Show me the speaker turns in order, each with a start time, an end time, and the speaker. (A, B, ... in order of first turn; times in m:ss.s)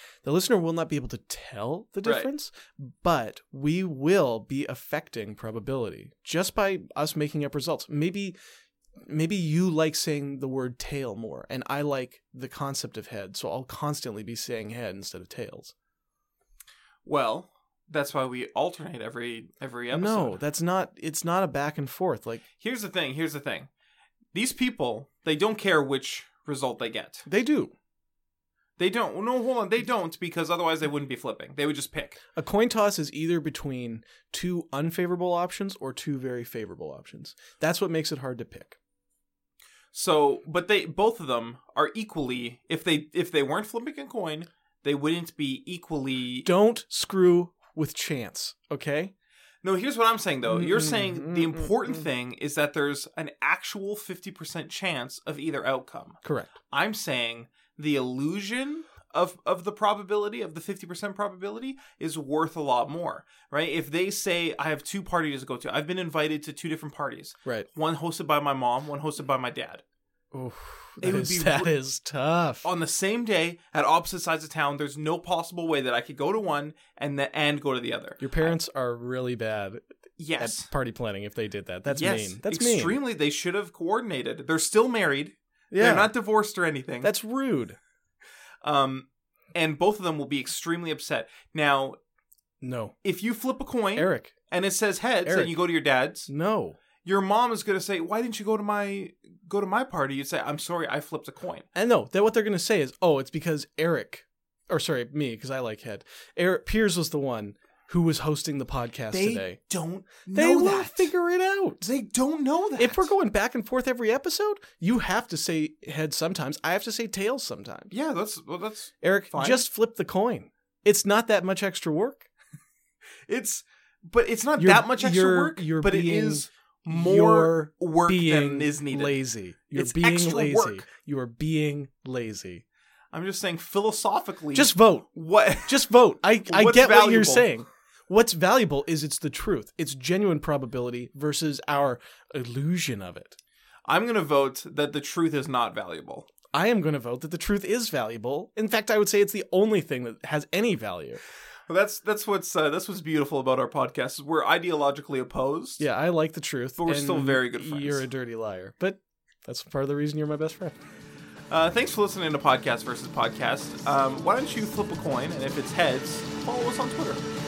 0:00.2-0:08.4 A
0:09.0-0:15.7 A
0:17.0-0:20.4 B
0:19.9-0:22.4 A
0:22.6-0:23.7 B
0:24.3-0:27.3 B
0:27.3-0:27.7 A
0:28.8-0:32.2 B
0:32.4-0:38.8 A
0:39.9-0:46.5 B
0:46.4-0:49.1 A
0:49.6-0:56.2 B
0:50.5-0:52.1 A
0:56.2-0:56.5 A
0:56.7-1:09.8 B
1:10.3-1:12.7 A
1:11.0-1:11.7 B
1:12.6-1:18.5 B
1:18.2-1:19.8 A
1:20.2-1:20.7 B
1:20.4-1:23.0 A
1:21.9-1:27.1 B
1:25.7-1:26.1 A
1:27.0-1:27.8 A
1:28.6-1:32.0 B
1:32.6-1:33.0 A
1:33.0-1:36.3 B
1:34.0-1:34.3 A
1:35.2-1:35.6 A
1:36.3-1:36.8 A
1:37.0-1:41.7 B
1:41.7-1:49.6 A
1:49.1-1:51.1 B
1:50.3-1:51.8 A
1:51.8-1:53.1 B
1:52.8-1:57.9 A
1:57.9-1:59.6 B
1:59.0-2:02.3 A
2:03.3-2:09.2 B
2:04.6-2:12.6 A
2:09.7-2:10.8 B
2:13.1-2:15.9 B
2:14.6-2:15.1 A
2:15.6-2:23.4 A
2:16.5-2:17.5 B
2:23.9-2:26.3 B
2:26.5-2:31.2 A
2:31.7-2:35.8 B
2:35.8-2:40.8 A
2:36.8-2:38.0 B
2:41.5-2:47.2 B